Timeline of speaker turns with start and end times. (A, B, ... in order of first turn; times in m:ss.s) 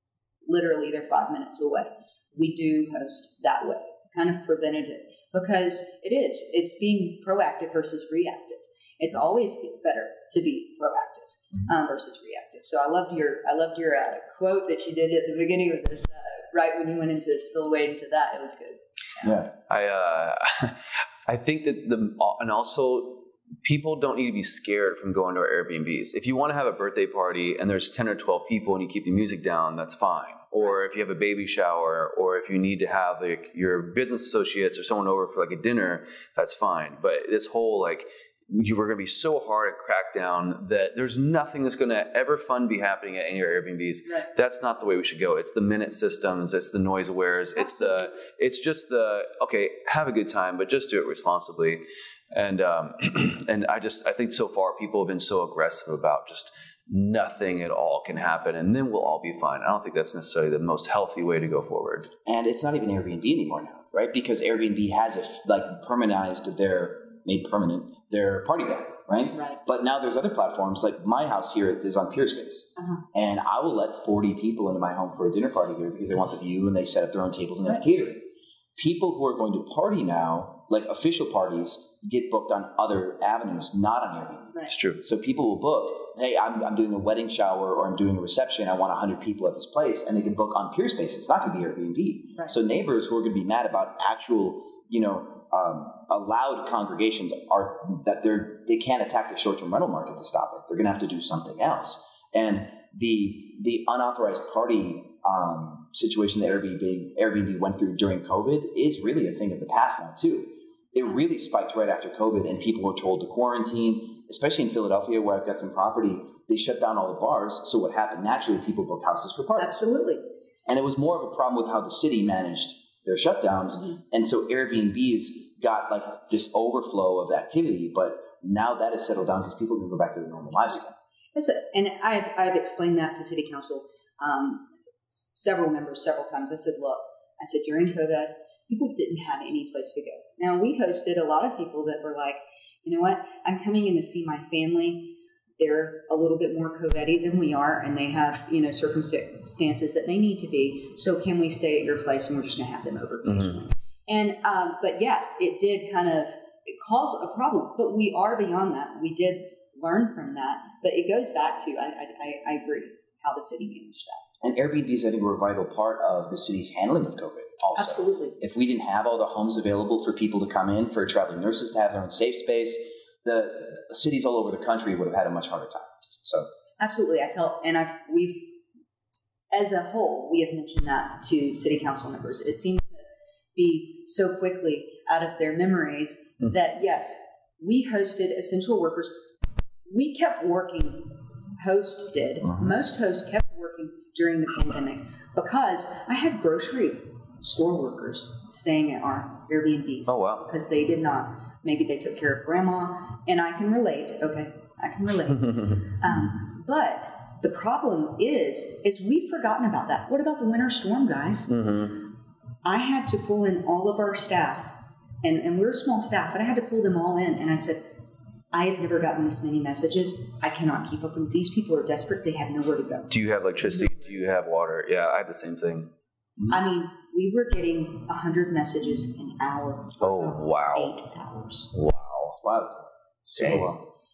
0:00.4-0:19.3 A
0:19.2-0:19.5 B
0:19.7-1:02.1 C
0:47.6-0:48.1 A
1:02.2-1:59.7 B
1:09.3-1:09.6 A
1:12.8-1:13.0 A
1:24.7-1:25.0 C
1:59.6-2:00.2 A
2:00.7-2:11.0 B
2:11.3-2:44.2 A
2:44.4-2:56.5 B
2:47.8-2:48.4 A
2:56.8-2:58.6 A
2:59.5-3:09.2 A
3:09.8-3:32.0 A
3:20.1-3:20.4 C
3:31.5-3:32.0 C
3:32.6-3:37.9 A
3:38.5-3:43.1 A
3:43.1-3:45.9 C
3:46.5-3:51.7 A
3:50.0-3:50.9 C
3:51.7-3:52.4 C
3:52.4-3:52.7 B
3:53.3-3:53.8 B
3:53.4-3:53.8 C
3:53.4-3:53.8 A